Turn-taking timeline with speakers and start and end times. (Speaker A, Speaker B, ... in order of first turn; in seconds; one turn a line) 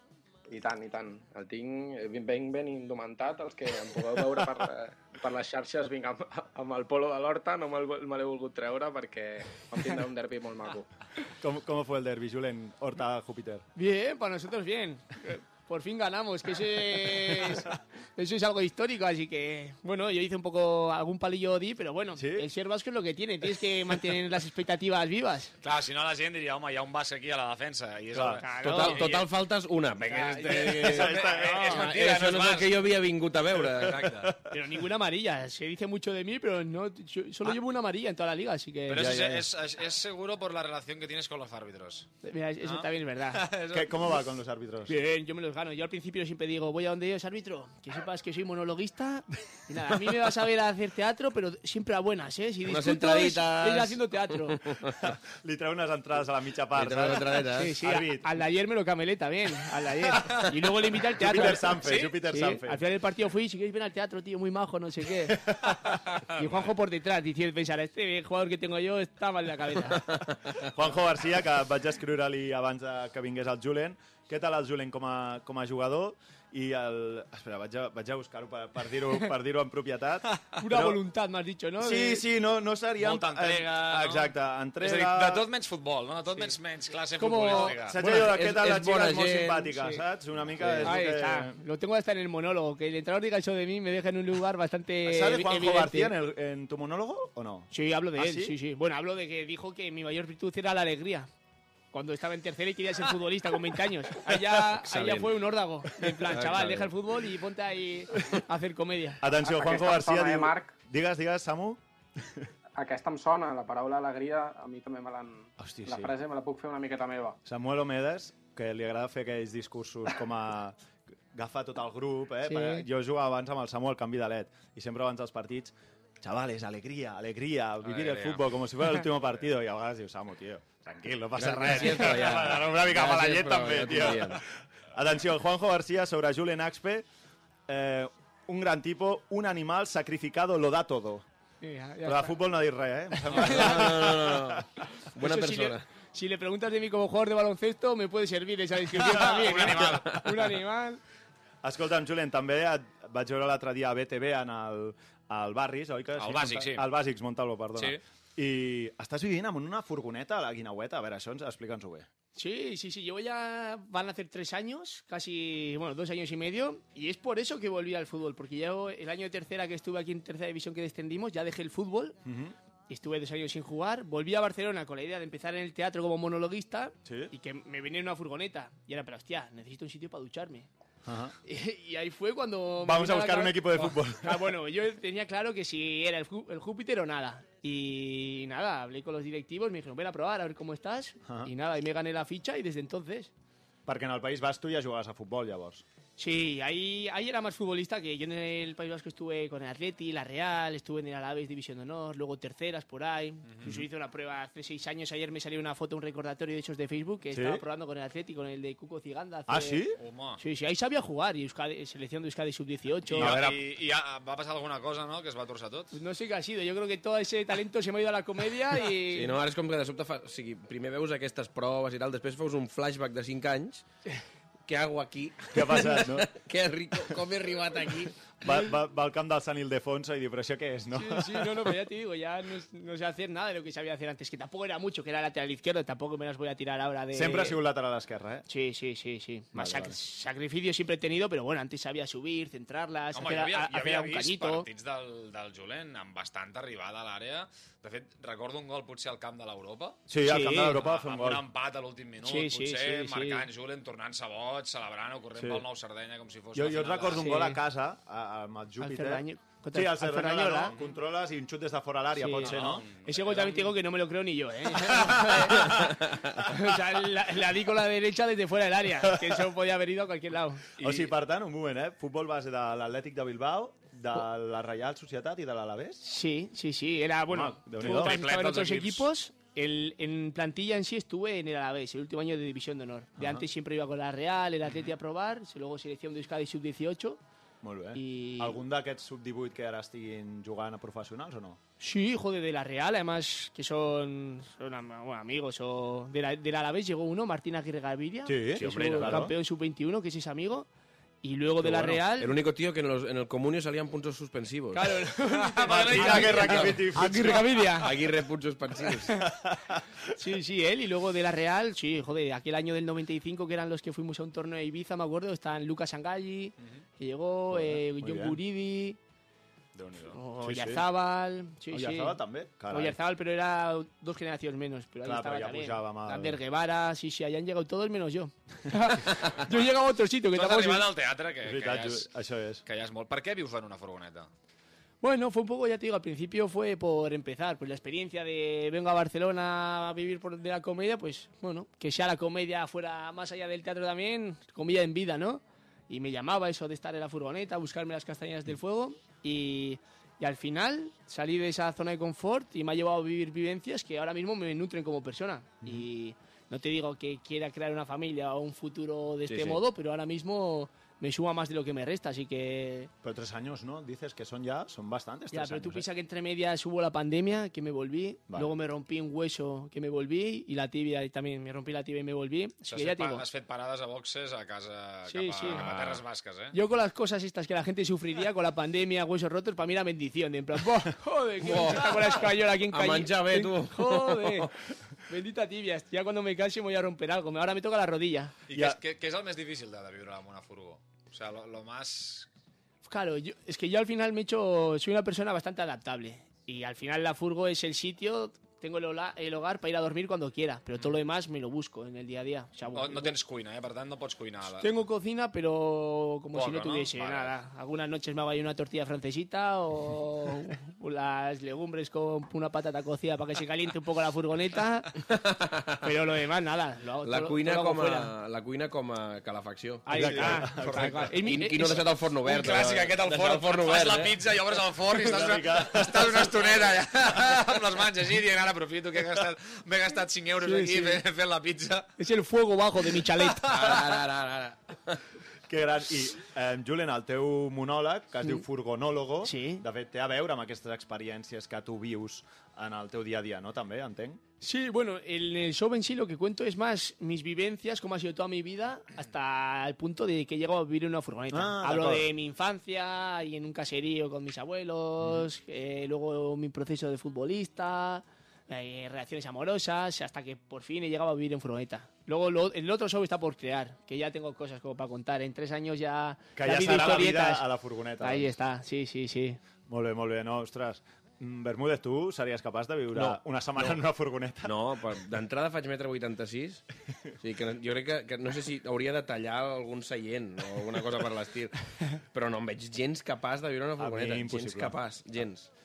Speaker A: 0.5-10.9
Speaker B: 11.4-13.7
Speaker C: 13.8-25.5
Speaker B: 22.2-22.5
Speaker D: 25.6-29.1
Speaker B: 28.1-29.0
Speaker C: 28.4-29.2
Speaker E: 28.6-34.3
Speaker D: 30.1-32.8
Speaker C: 30.2-30.9
Speaker B: 30.8-31.8
Speaker B: 34.1-34.5
Speaker C: 34.5-39.0
Speaker D: 38.9-44.1
Speaker B: 38.9-39.5
Speaker C: 42.2-43.4
Speaker B: 43.7-44.9
Speaker C: 44.9-54.6
Speaker E: 52.7-55.0
Speaker B: 55.0-58.3
Speaker E: 56.8-57.8
Speaker C: 57.5-65.5
Speaker B: 61.2-62.8
Speaker D: 61.8-62.1
Speaker B: 65.3-65.8
Speaker D: 66.1-66.5
Speaker C: 66.4-70.2
Speaker B: 70.6-81.0
Speaker C: 80.6-82.2
Speaker B: 81.8-85.5
Speaker D: 83.0-88.0
Speaker C: 87.2-87.8
Speaker B: 87.8-91.6
Speaker E: 88.0-89.8
Speaker E: 90.6-91.0
Speaker C: 90.8-96.1
Speaker B: 95.0-98.5
Speaker C: 97.7-101.3
Speaker C: 101.9-109.2
Speaker E: 104.3-105.4
Speaker E: 106.3-106.9
Speaker B: 109.2-112.5
Speaker A: 109.4-110.7
Speaker A: 112.8-117.4
Speaker B: 115.6-116.1
Speaker B: 117.5-120.8
Speaker B: 121.3-137.1
Speaker C: 122.5-122.8
Speaker D: 127.8-128.4
Speaker E: 131.4-134.4
Speaker B: 137.7-141.3
Speaker C: 141.6-142.4
Speaker B: 142.0-144.7
Speaker C: 143.3-143.9
Speaker E: 143.4-145.8
Speaker C: 145.2-151.0
Speaker D: 149.1-150.2
Speaker B: 149.1-150.0
Speaker B: 151.6-162.1
Speaker D: 156.2-156.9
Speaker D: 157.8-158.0
Speaker C: 162.3-172.2
Speaker B: 172.2-172.6
Speaker C: 172.9-180.7
Speaker B: 177.1-177.3
Speaker B: 181.1-181.3
Speaker C: 181.5-193.3
Speaker B: 182.8-184.5
Speaker B: 191.2-191.5
Speaker B: 193.9-195.8
Speaker C: 196.2-209.8
Speaker D: 203.5-203.8
Speaker B: 207.3-207.6
Speaker B: 209.5-210.0
Speaker D: 210.0-210.4
Speaker C: 210.4-213.4
Speaker D: 213.1-215.9
Speaker B: 213.1-213.6
Speaker C: 215.9-219.3
Speaker E: 219.1-223.8
Speaker E: 224.7-228.2
Speaker B: 225.5-226.3
Speaker B: 228.4-231.7
Speaker C: 230.9-237.6
Speaker B: 237.1-238.4
Speaker C: 238.5-244.7
Speaker B: 239.5-240.0
Speaker D: 243.1-250.0
Speaker B: 250.1-251.4
Speaker C: 250.2-250.8
Speaker D: 250.5-257.4
Speaker C: 252.2-253.4
Speaker B: 255.4-255.6
Speaker B: 256.5-262.9
Speaker C: 257.1-257.6
Speaker C: 258.8-260.8
Speaker C: 262.2-270.7
Speaker D: 262.4-263.7
Speaker B: 265.0-265.9
Speaker B: 269.0-269.4
Speaker D: 270.8-271.1
Speaker B: 270.8-276.0
Speaker C: 276.0-287.2
Speaker B: 277.3-278.2
Speaker D: 277.8-279.1
Speaker B: 283.2-283.5
Speaker B: 287.6-291.6
Speaker C: 287.9-288.6
Speaker C: 291.8-300.7
Speaker B: 298.3-299.3
Speaker E: 298.6-299.2
Speaker C: 301.2-302.3
Speaker E: 301.6-305.0
Speaker C: 304.7-307.9
Speaker D: 305.3-307.2
Speaker B: 305.7-307.5
Speaker E: 306.5-306.8
Speaker E: 307.8-309.2
Speaker B: 309.3-310.0
Speaker C: 310.1-319.0
Speaker B: 317.5-318.4
Speaker D: 319.8-320.2
Speaker C: 320.1-330.9
Speaker B: 320.4-320.9
Speaker B: 321.7-323.0
Speaker B: 325.0-326.4
Speaker D: 330.3-332.1
Speaker B: 331.4-332.6
Speaker D: 332.6-334.3
Speaker C: 335.0-362.9
Speaker E: 359.3-359.6
Speaker B: 363.0-365.9
Speaker C: 365.3-373.2
Speaker D: 372.6-376.6
Speaker C: 375.1-375.6
Speaker B: 375.6-376.0
Speaker C: 376.5-384.5
Speaker E: 381.4-384.5
Speaker C: 385.1-388.4
Speaker D: 388.5-392.3
Speaker B: 388.5-388.8
Speaker C: 392.9-403.1
Speaker D: 402.7-404.7
Speaker C: 404.6-415.1
Speaker D: 406.3-407.3
Speaker E: 415.1-415.8
Speaker C: 415.8-418.1
Speaker E: 417.0-420.4
Speaker C: 419.9-421.8
Speaker B: 419.9-421.0
Speaker D: 420.5-421.1
Speaker E: 421.2-424.2
Speaker D: 422.2-431.9
Speaker B: 425.0-426.7
Speaker C: 430.4-431.0
Speaker C: 432.0-433.5
Speaker D: 433.3-434.0
Speaker E: 433.5-435.0
Speaker B: 435.5-444.2
Speaker C: 439.2-439.6
Speaker C: 444.4-467.4
Speaker B: 451.3-452.1
Speaker B: 466.4-468.3
Speaker C: 468.0-469.4
Speaker B: 469.7-474.6
Speaker E: 472.9-473.8
Speaker E: 474.4-476.7
Speaker E: 477.2-485.5
Speaker B: 483.8-484.8